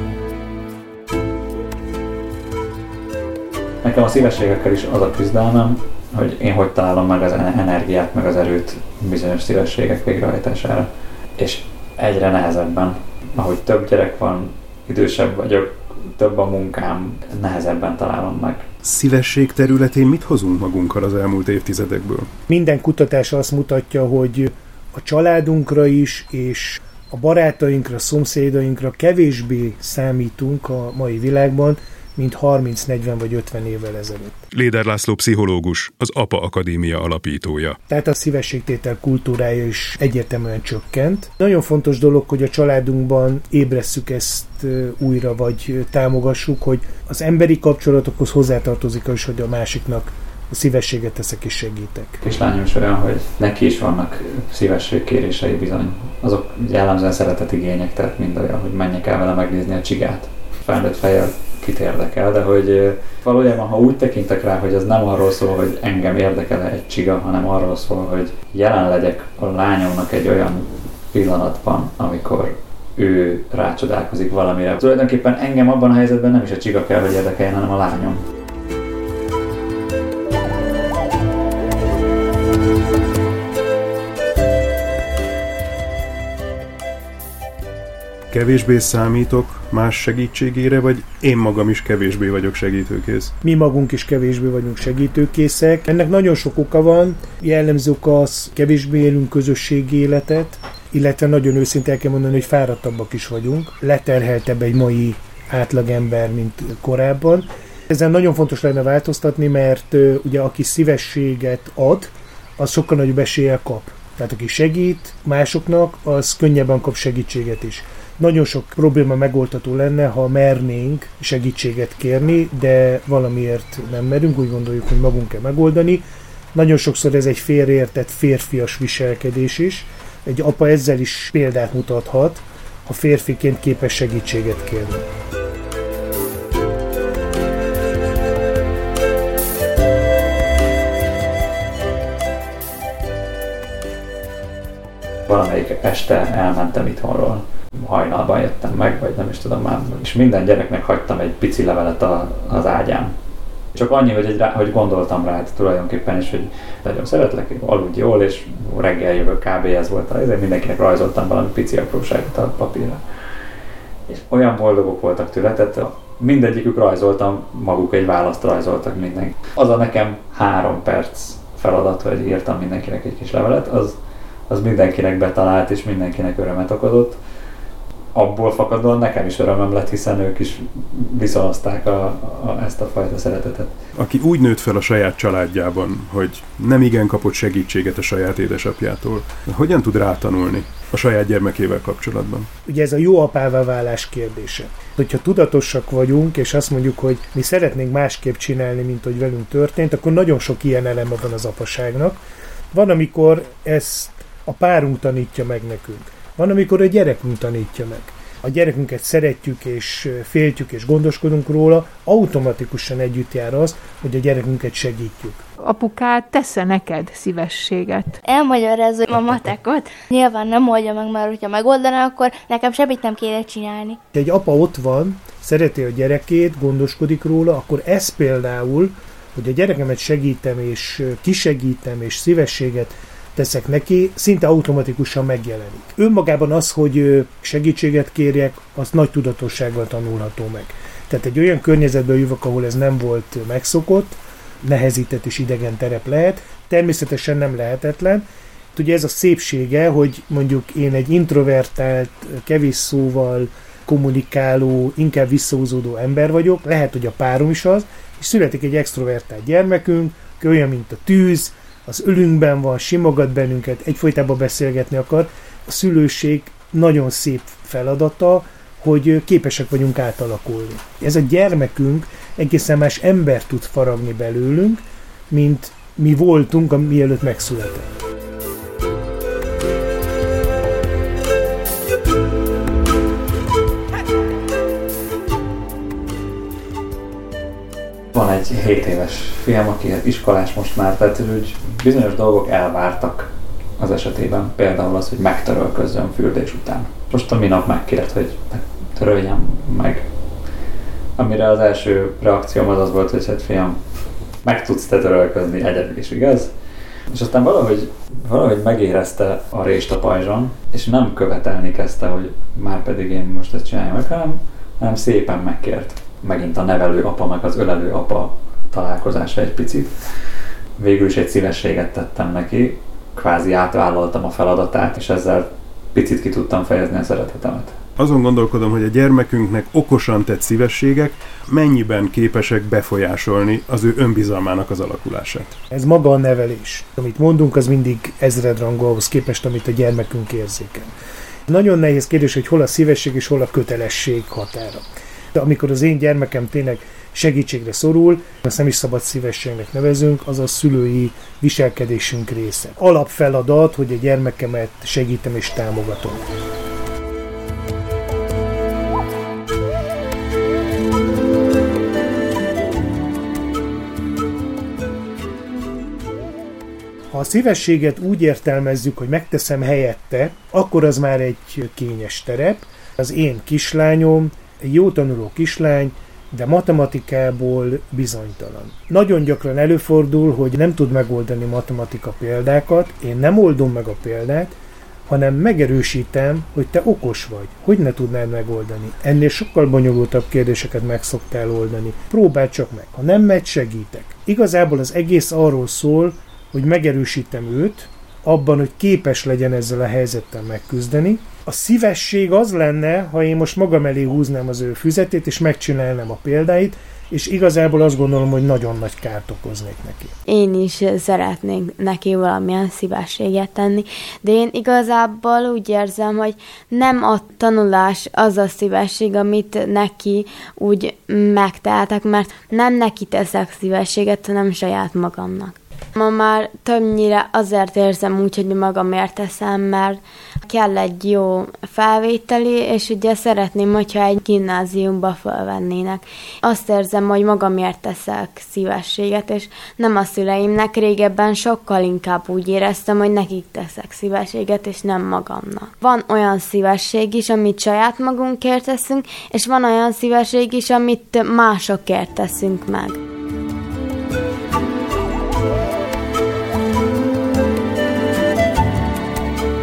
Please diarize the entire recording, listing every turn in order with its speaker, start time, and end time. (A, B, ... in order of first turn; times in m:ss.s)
0:03.8-0:18.7 A
0:18.8-0:22.3 B
0:22.5-0:34.4 C
0:34.5-0:37.8 B
0:37.9-0:52.2 C
0:52.2-1:18.2 A
1:28.3-1:33.3 B
1:33.4-2:15.1 C
2:25.3-2:33.1 A
2:33.8-2:43.0 A
2:44.1-2:54.0 A
2:54.5-2:57.2 A
2:58.2-3:03.7 A
3:04.0-3:12.5 B
3:12.7-3:35.5 C
3:35.6-3:38.2 D
3:38.2-3:44.0 E
3:44.1-4:37.9 C
4:48.1-5:00.0 A
5:01.2-5:03.8 A
5:04.4-5:06.5 A
5:07.1-5:19.9 A
5:20.8-5:27.8 A
5:28.0-5:35.6 B
5:35.7-5:40.9 C
5:41.5-5:56.2 C
6:07.1-6:24.6 C
6:25.1-6:50.2 C
6:50.3-7:33.0 F